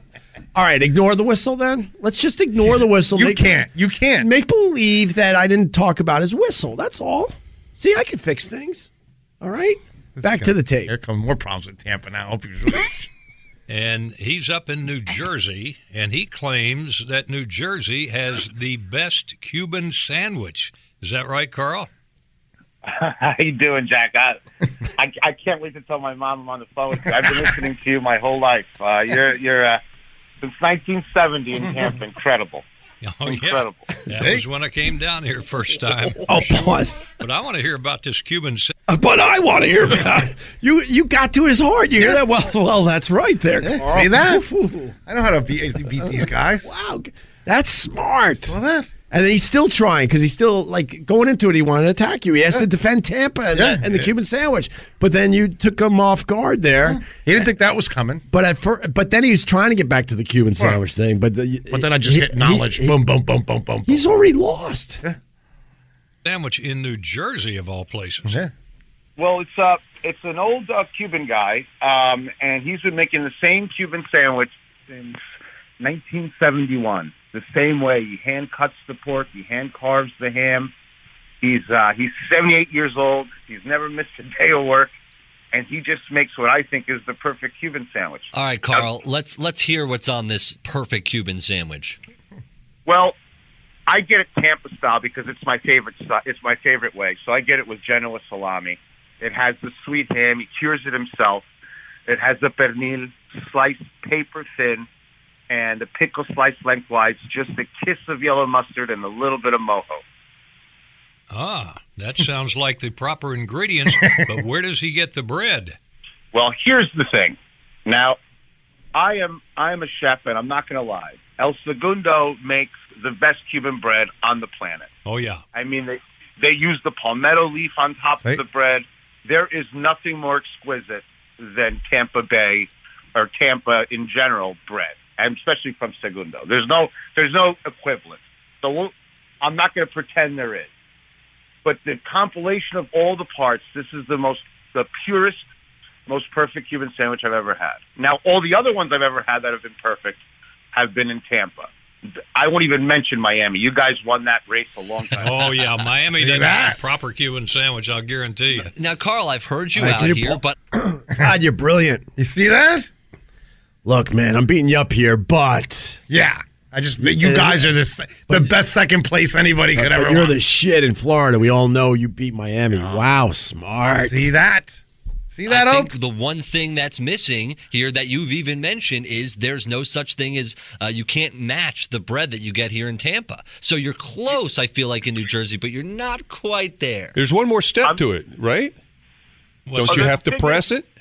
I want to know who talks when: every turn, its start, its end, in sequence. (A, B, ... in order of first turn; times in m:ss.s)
0:00.6-0:03.6 A
0:02.8-0:04.3 B
0:04.2-0:08.9 A
0:09.4-0:10.9 A
0:10.2-0:13.1 B
0:13.7-0:21.9 C
0:22.8-0:24.4 D
0:25.0-0:29.8 D
0:30.4-0:32.6 D
0:33.0-0:38.7 C
0:33.3-0:33.9 D
0:34.1-0:34.4 B
0:36.3-0:37.0 A
0:38.9-0:45.0 A
0:43.6-0:44.4 B
0:45.1-0:46.7 B
0:46.6-0:48.6 A
0:48.5-0:48.9 B
0:49.1-0:57.0 A
0:53.5-0:54.1 B
0:56.8-0:58.2 B
0:58.3-1:03.0 A
1:01.7-1:04.2 B
1:03.9-1:05.0 A
1:06.2-1:08.4 C
1:08.3-1:08.5 B
1:09.2-1:15.2 D
1:15.8-1:20.7 D
1:21.4-1:24.9 D
1:25.5-1:28.3 D
1:28.3-1:32.0 E
1:32.9-1:33.2 D
1:33.9-1:41.4 D
1:42.1-1:44.9 D
1:45.5-1:50.0 D
1:51.3-1:55.8 C
1:53.9-1:54.2 B
1:56.3-1:58.2 D
1:58.9-2:04.9 D
2:05.0-2:05.4 C
2:05.5-2:20.7 D
2:21.6-2:25.5 D
2:26.1-2:30.2 D
2:30.7-2:31.7 D
2:32.4-2:35.3 D
2:35.2-2:38.7 C
2:36.1-2:36.8 B
2:38.8-2:40.6 E
2:39.8-2:42.1 A
2:42.2-2:42.9 B
2:43.8-2:46.0 A
2:46.1-2:50.3 B
2:47.0-2:47.8 A
2:48.3-2:48.5 A
2:49.8-2:54.3 A
2:53.9-2:55.9 B
2:55.5-3:07.2 E
3:07.1-3:08.8 F
3:09.7-3:10.1 C
3:09.7-3:10.9 F
3:09.9-3:10.7 D